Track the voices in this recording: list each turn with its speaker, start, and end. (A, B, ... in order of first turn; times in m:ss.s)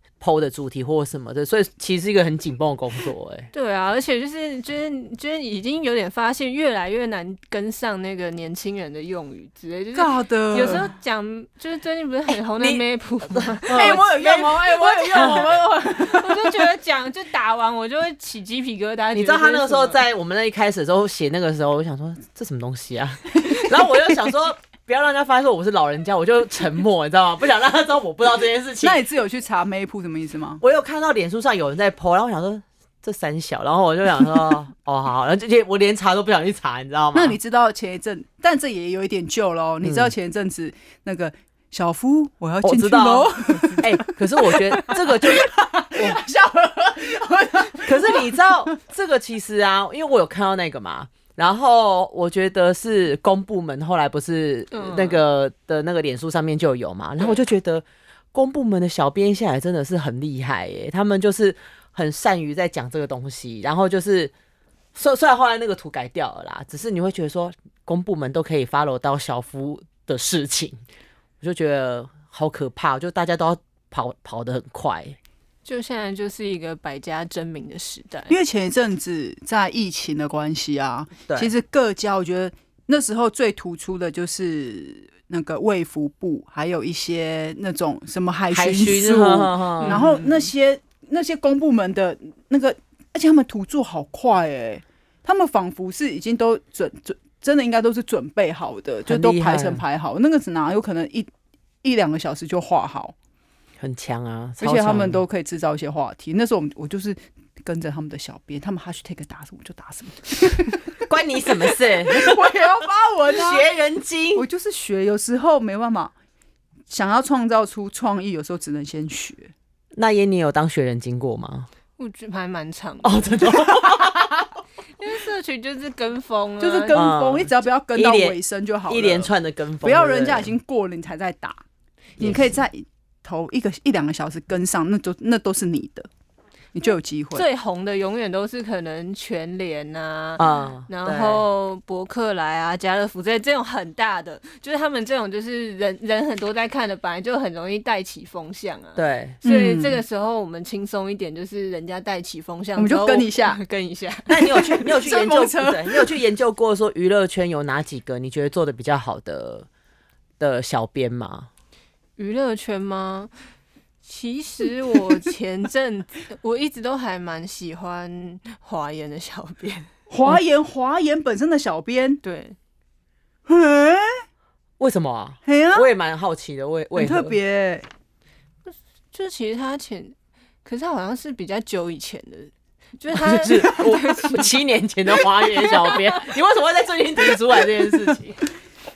0:00.2-0:03.5 A
0:03.5-0:20.0 B
0:09.9-0:10.9 C
0:12.3-0:15.5 A
0:13.7-0:16.6 C
0:19.1-0:29.0 A
0:28.8-0:30.6 C
0:30.6-0:37.4 A
0:37.1-0:48.3 C
0:39.8-0:40.1 A
0:42.6-0:46.2 A
0:47.8-1:04.3 A
0:54.7-0:55.2 B
1:05.0-1:10.8 A
1:11.4-1:15.2 A
1:15.6-1:18.4 B
1:18.3-1:41.3 C
1:28.5-1:30.0 A
1:29.8-1:30.3 B
1:39.1-1:39.8 A
1:41.8-1:43.1 C
1:43.8-1:45.2 A
1:44.6-1:51.0 C
1:51.1-1:52.6 A
1:51.7-1:53.7 C
1:53.3-1:54.4 A
1:54.4-1:56.1 C
1:56.9-1:59.5 C
2:00.0-2:01.7 A
2:02.0-2:03.7 B
2:03.0-2:04.4 A
2:05.0-2:07.0 B
2:06.6-2:09.3 C
2:06.9-2:08.4 A
2:08.9-2:10.5 A
2:09.8-2:11.6 C
2:12.2-2:16.1 C
2:16.7-2:17.5 C
2:17.4-2:34.6 B
2:20.4-2:21.4 A
2:29.0-2:29.4 A
2:29.4-2:30.0 C
2:32.8-2:33.6 C
2:34.3-2:39.7 A
2:34.5-2:36.2 C
2:40.4-2:41.5 A
2:42.2-2:43.3 B
2:44.0-2:49.9 B
2:50.1-2:52.2 C
2:52.2-2:52.6 B
2:53.5-2:54.2 C
2:54.8-2:57.4 A
2:55.4-2:55.9 C
2:57.0-2:57.9 C
2:58.7-3:04.5 B
3:03.1-3:08.4 A
3:05.2-3:06.3 B